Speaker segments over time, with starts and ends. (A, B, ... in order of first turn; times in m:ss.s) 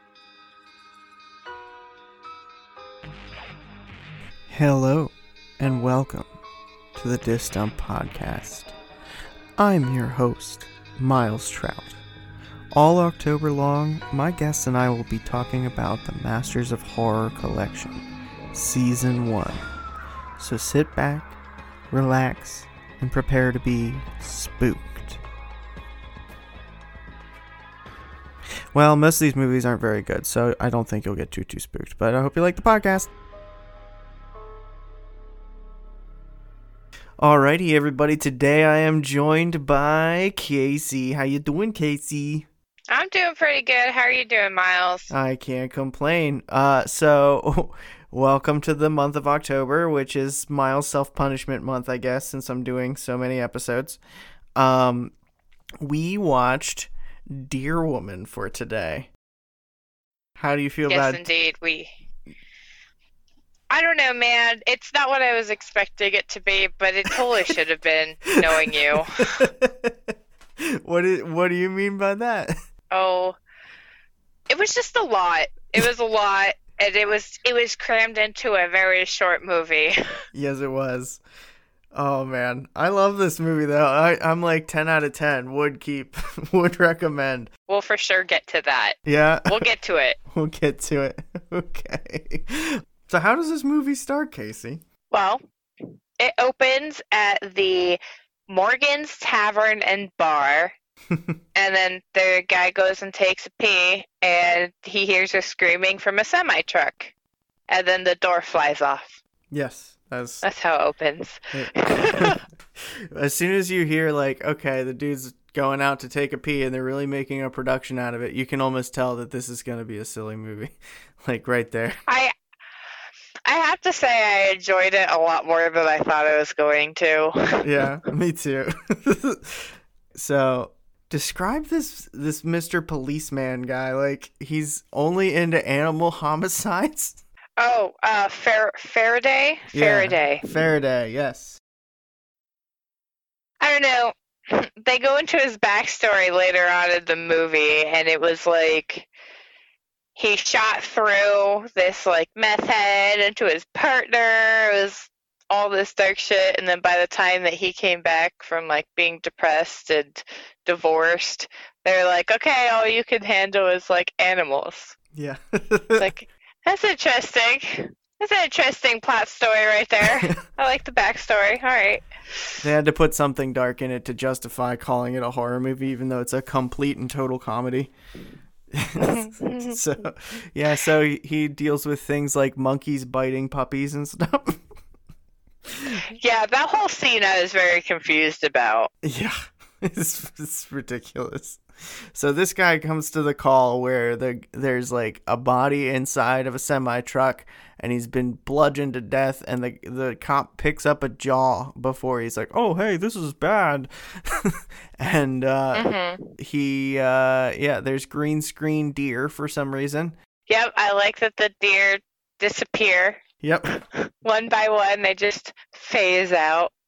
0:04.5-0:06.3 A
0:07.0-0:08.8 A
0:09.6-0:12.0 A
0:12.7-0:19.6 A
0:20.4-0:21.4 A
0:21.9-0:25.2 A
0:28.7-0:33.1 A
0:37.2-0:42.5 A
0:42.9-0:45.1 B
0:45.1-0:54.0 A
0:54.6-0:55.1 A
0:55.8-0:59.1 A
1:00.4-1:01.3 A
1:00.9-1:01.9 B
1:03.7-1:09.4 B
1:08.3-1:10.1 A
1:10.8-1:12.6 A
1:12.9-1:13.4 B
1:14.5-1:20.0 B
1:20.3-1:21.2 A
1:21.9-1:27.5 A
1:27.7-1:30.2 B
1:29.1-1:29.6 A
1:30.3-1:34.8 A
1:35.1-1:40.7 B
1:41.6-1:47.1 B
1:47.7-1:49.2 B
1:49.5-1:50.5 A
1:50.4-1:52.4 B
1:51.5-1:52.4 A
1:53.1-2:02.0 A
2:02.1-2:02.3 B
2:03.5-2:07.7 B
2:07.6-2:17.2 A
2:17.6-2:20.4 B
2:19.7-2:21.6 A
2:23.6-2:29.1 B
2:30.2-2:45.0 B
2:45.1-2:46.1 A
2:46.0-2:52.1 B
2:52.6-2:57.9 A
2:58.7-3:04.6 A
2:59.0-2:59.8 B
3:06.1-3:08.9 B
3:09.0-3:11.6 A
3:12.1-3:30.2 A
3:25.7-3:26.3 B
3:30.5-3:36.7 B
3:33.4-3:33.7 A